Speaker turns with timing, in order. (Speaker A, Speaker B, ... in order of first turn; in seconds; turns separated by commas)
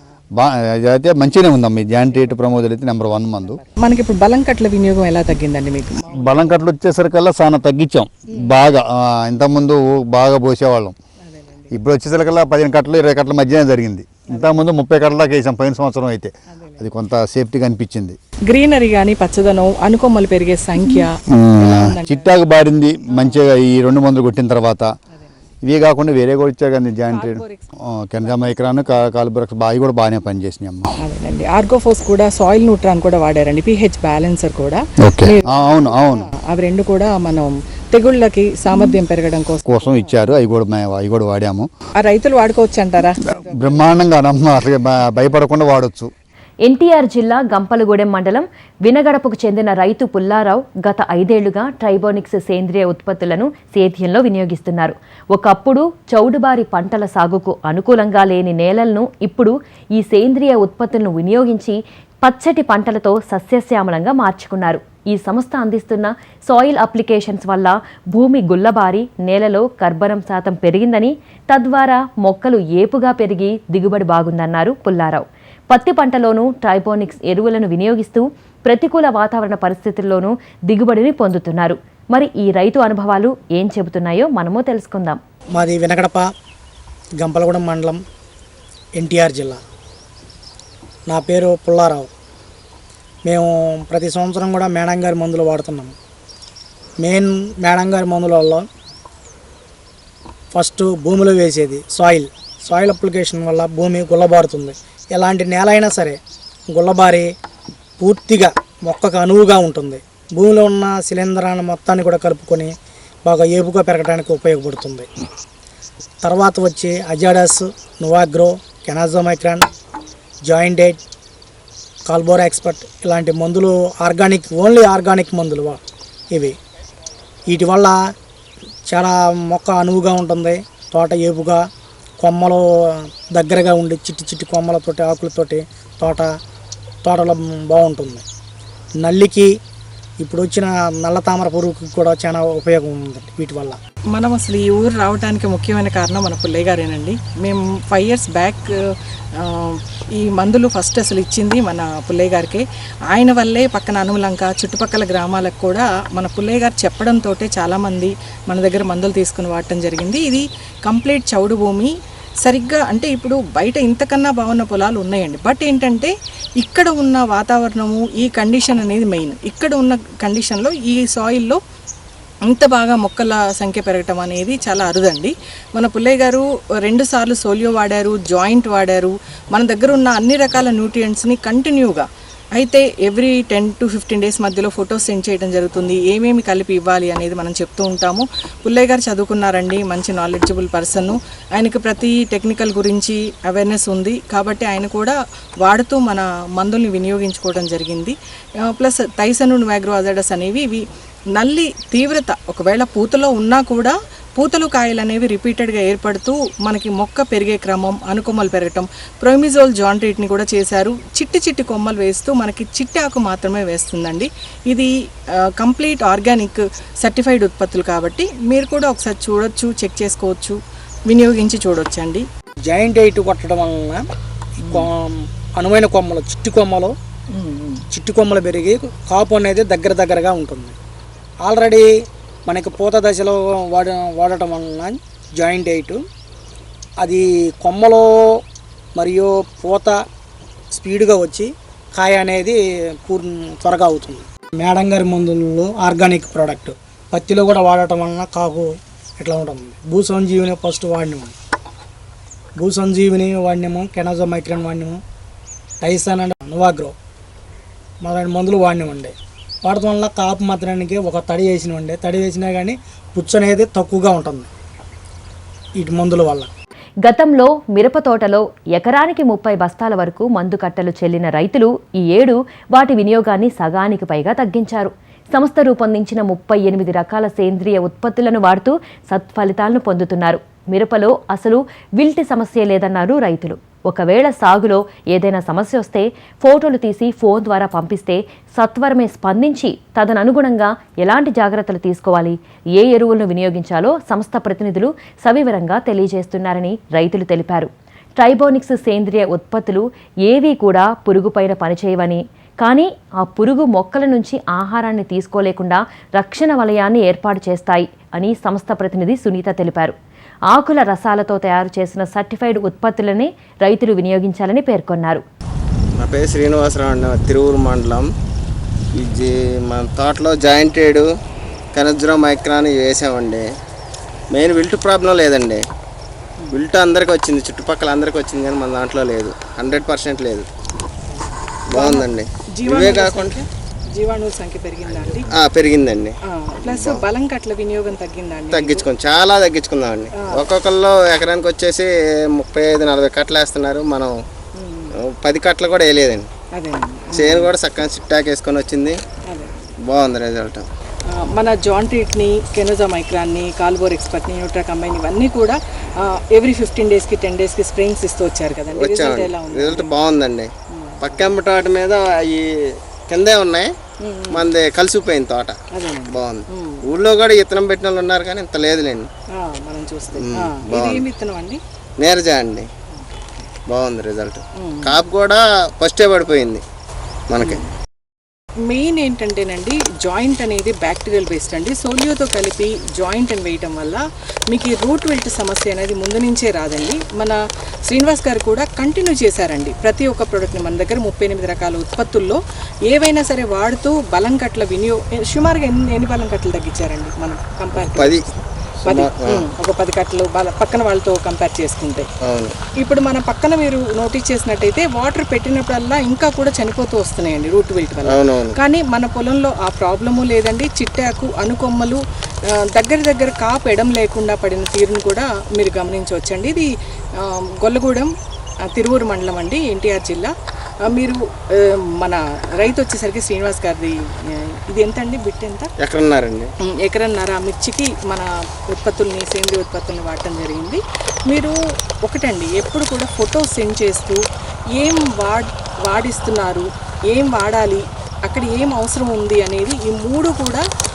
Speaker A: 0.4-3.6, Speaker B: 3.4-6.6, Speaker A: 6.2-10.9, Speaker B: 11.2-11.7, Speaker A: 11.7-18.2, Speaker B: 16.5-16.8, Speaker B: 18.5-21.1, Speaker A: 21.4-24.9, Speaker B: 21.6-22.3, Speaker B: 23.1-23.4, Speaker B: 25.1-25.4, Speaker A: 25.6-30.9, Speaker B: 27.1-27.7, Speaker B: 28.2-28.9, Speaker B: 31.0-40.1, Speaker A: 35.0-36.3, Speaker A: 39.7-41.7, Speaker B: 42.0-43.9, Speaker A: 43.4-46.1, Speaker C: 46.6-85.2, Speaker D: 85.5-86.2, Speaker D: 87.2-88.0, Speaker D: 89.0-89.6, Speaker D: 91.1-92.1, Speaker D: 93.2-95.9, Speaker D: 97.0-98.7, Speaker D: 100.5-106.2, Speaker D: 106.7-107.3, Speaker D: 108.0-112.7, Speaker D: 113.2-115.1, Speaker D: 116.2-119.7, Speaker D: 120.5-121.0, Speaker D: 122.1-125.8, Speaker D: 127.5-128.0, Speaker D: 128.9-131.6, Speaker D: 132.2-132.6, Speaker D: 133.3-136.3, Speaker D: 137.0-138.2, Speaker D: 139.0-139.5, Speaker D: 140.2-143.8, Speaker B: 144.1-148.8, Speaker B: 149.4-161.9, Speaker B: 162.4-171.6, Speaker B: 172.4-222.3, Speaker D: 222.7-224.0, Speaker D: 224.7-226.9, Speaker B: 227.3-227.8, Speaker D: 227.9-230.8, Speaker D: 231.4-231.9, Speaker D: 232.5-236.0, Speaker D: 237.0-238.1, Speaker D: 239.0-240.0, Speaker D: 240.7-251.3, Speaker D: 252.6-255.0, Speaker D: 255.8-256.9, Speaker D: 258.0-264.5, Speaker D: 265.8-266.5, Speaker C: 267.0-309.9, Speaker C: 310.5-315.2, Speaker E: 316.0-318.1, Speaker E: 318.9-321.1, Speaker E: 321.7-323.5, Speaker E: 324.3-325.6, Speaker E: 326.6-330.5, Speaker E: 331.7-333.4, Speaker B: 331.8-335.3, Speaker E: 334.9-337.0, Speaker B: 336.3-338.9, Speaker E: 338.5-344.1, Speaker B: 340.2-340.4, Speaker B: 344.6-344.9, Speaker E: 345.1-346.2, Speaker B: 346.5-347.5, Speaker E: 347.2-348.9, Speaker B: 349.3-349.5, Speaker E: 349.9-350.7, Speaker B: 351.1-359.9, Speaker E: 358.7-360.5, Speaker B: 360.7-361.3, Speaker E: 361.0-362.5, Speaker E: 363.1-363.7, Speaker B: 364.0-364.5, Speaker E: 364.3-365.6, Speaker B: 365.7-366.8, Speaker E: 366.1-369.1, Speaker B: 369.3-371.6, Speaker E: 370.2-371.1, Speaker E: 372.0-372.7, Speaker B: 372.9-373.5, Speaker E: 373.7-376.6, Speaker B: 374.6-375.0, Speaker E: 377.3-377.6, Speaker B: 378.6-402.1, Speaker E: 397.8-398.2, Speaker E: 398.9-399.5, Speaker E: 402.3-402.6, Speaker B: 402.8-418.1, Speaker E: 408.1-408.6, Speaker B: 418.6-425.7, Speaker E: 425.8-426.5, Speaker B: 426.6-434.2, Speaker B: 434.7-440.6